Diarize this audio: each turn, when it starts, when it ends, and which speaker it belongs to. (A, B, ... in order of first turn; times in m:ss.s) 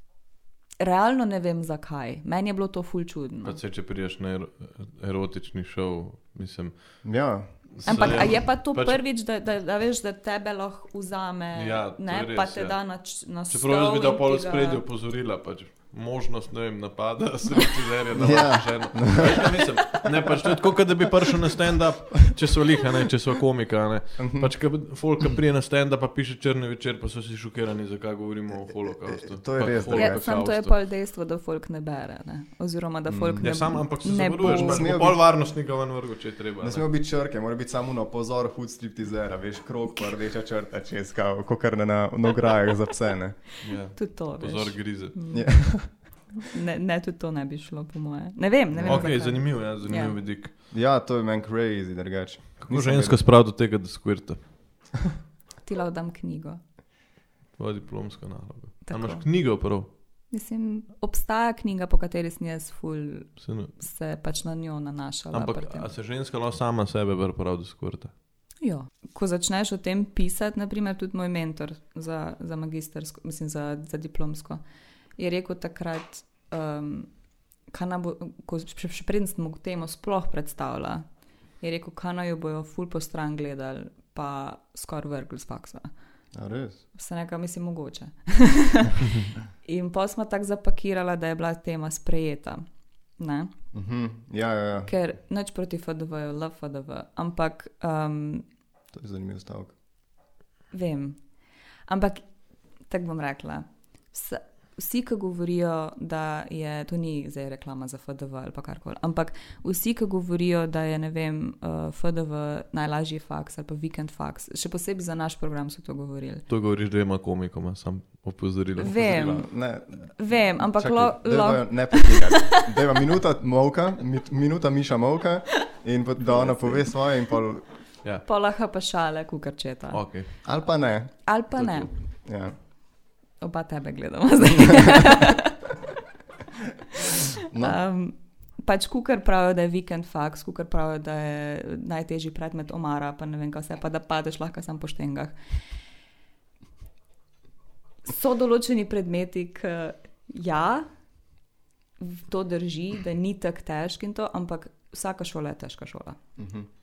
0:00.8-0:03.6 A
0:03.4-0:07.2 B
0:07.0-0:08.3 C
0:07.8-0:09.0 B
0:07.8-0:14.8 A
0:11.6-0:12.8 B
0:13.5-0:30.8 B
0:18.1-0:20.3 C
0:24.2-0:24.6 C
0:29.1-0:30.2 C
0:29.9-0:34.9 A
0:33.1-0:33.8 C
0:33.4-0:36.9 B
0:34.4-0:35.2 C
0:36.6-0:43.4 C
0:43.6-0:45.2 B
0:43.7-0:50.2 A
0:45.3-0:46.0 C
0:48.7-0:49.2 C
0:48.8-0:50.5 B
0:50.7-0:53.2 C
0:52.6-0:54.5 B
0:55.6-0:56.6 A
0:57.6-0:59.9 B
0:58.9-0:59.2 A
1:00.3-1:05.9 A
1:03.4-1:03.8 B
1:05.3-1:08.1 B
1:08.6-1:14.6 A
1:15.2-1:17.1 A
1:17.7-1:21.1 A
1:21.6-1:25.9 A
1:26.3-1:26.8 C
1:26.9-1:29.1 A
1:29.6-1:32.6 A
1:33.2-1:33.5 A
1:33.7-1:34.9 C
1:34.9-1:38.4 A
1:38.9-1:39.7 C
1:40.7-1:41.2 A
1:41.9-1:42.3 A
1:42.8-1:56.5 A
1:56.5-1:59.5 B
1:58.8-1:59.6 A
1:59.4-2:07.7 C
2:00.2-2:02.6 A
2:08.2-2:10.1 A
2:09.9-2:10.3 B
2:10.4-2:11.3 C
2:11.2-2:11.9 A
2:11.6-2:11.9 B
2:12.2-2:12.5 C
2:13.4-2:15.6 A
2:17.0-2:25.4 A
2:17.5-2:17.8 C
2:28.0-2:30.9 A
2:32.0-2:36.2 A
2:36.4-2:36.7 C